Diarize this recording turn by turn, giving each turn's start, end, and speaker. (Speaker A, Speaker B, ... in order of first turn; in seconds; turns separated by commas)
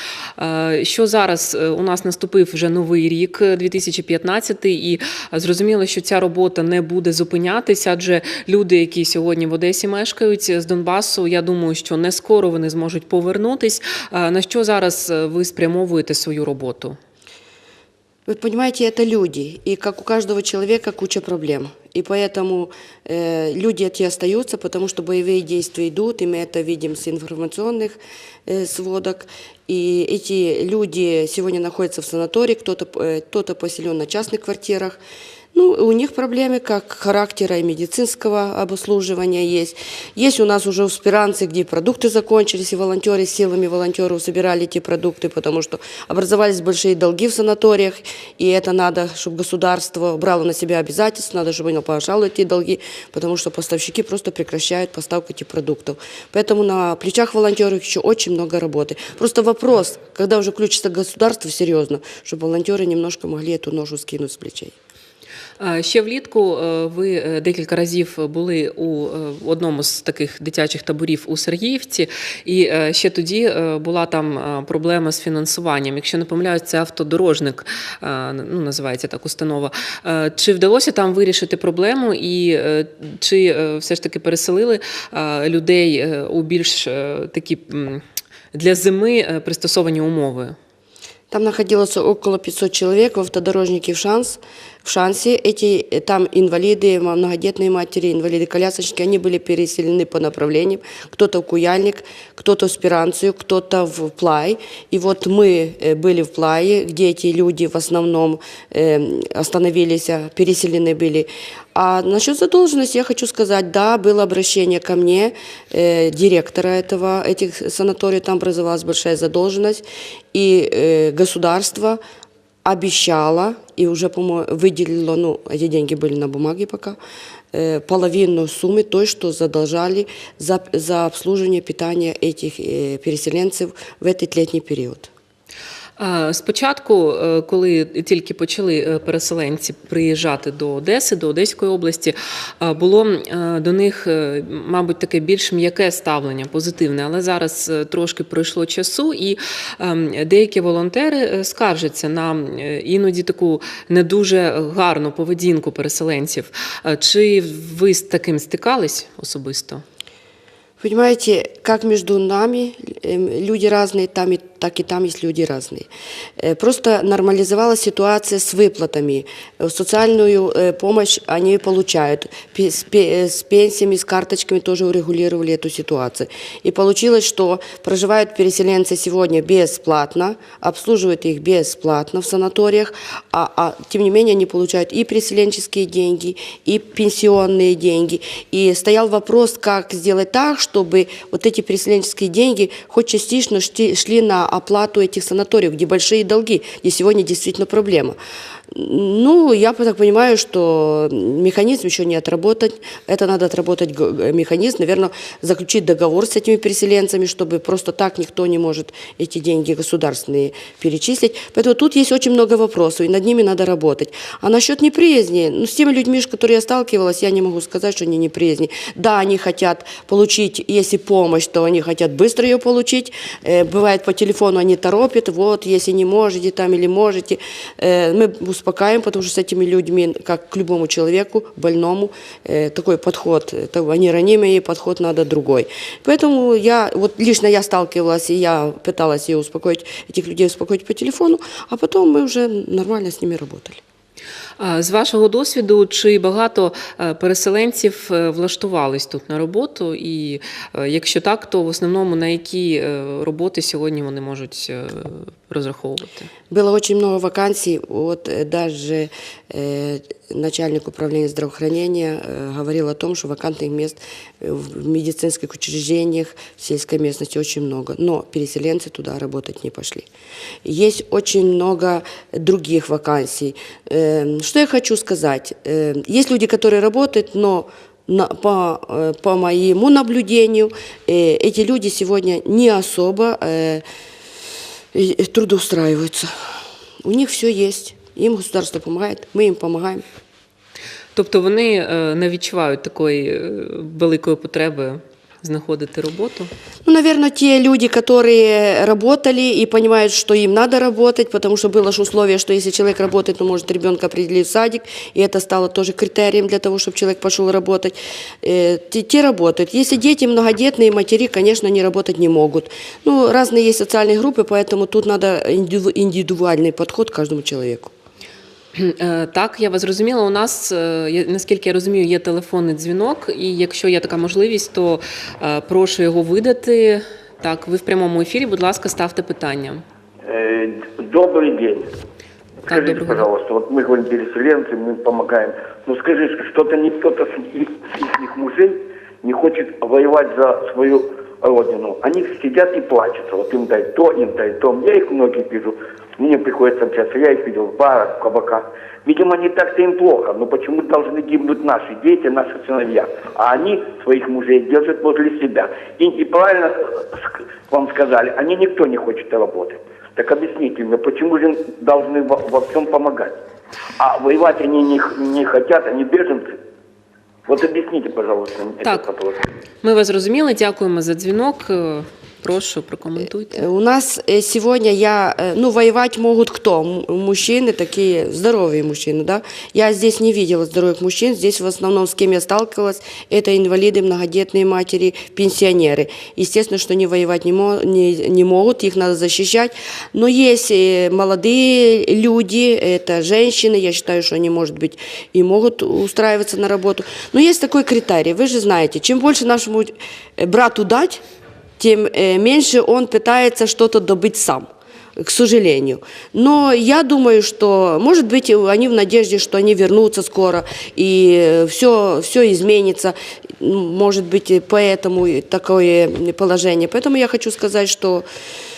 Speaker A: 0.4-17.0, Speaker B: 18.2-35.0, Speaker B: 35.5-64.8, Speaker A: 65.6-90.5, Speaker B: 91.3-122.0, Speaker B: 122.6-127.0, Speaker B: 127.5-135.1, Speaker A: 136.0-159.8, Speaker B: 160.8-198.2, Speaker B: 198.7-243.8, Speaker A: 244.6-256.3, Speaker B: 256.5-270.1, Speaker B: 270.6-283.8, Speaker B: 284.9-286.3, Speaker B: 287.0-290.0, Speaker A: 291.1-296.5, Speaker B: 296.9-317.9, Speaker A: 318.8-329.8, Speaker C: 330.2-331.9, Speaker A: 332.7-333.3, Speaker C: 332.7-363.3, Speaker C: 364.0-366.6, Speaker C: 367.5-369.4, Speaker A: 369.8-373.6, Speaker B: 373.5-401.2, Speaker B: 401.8-418.2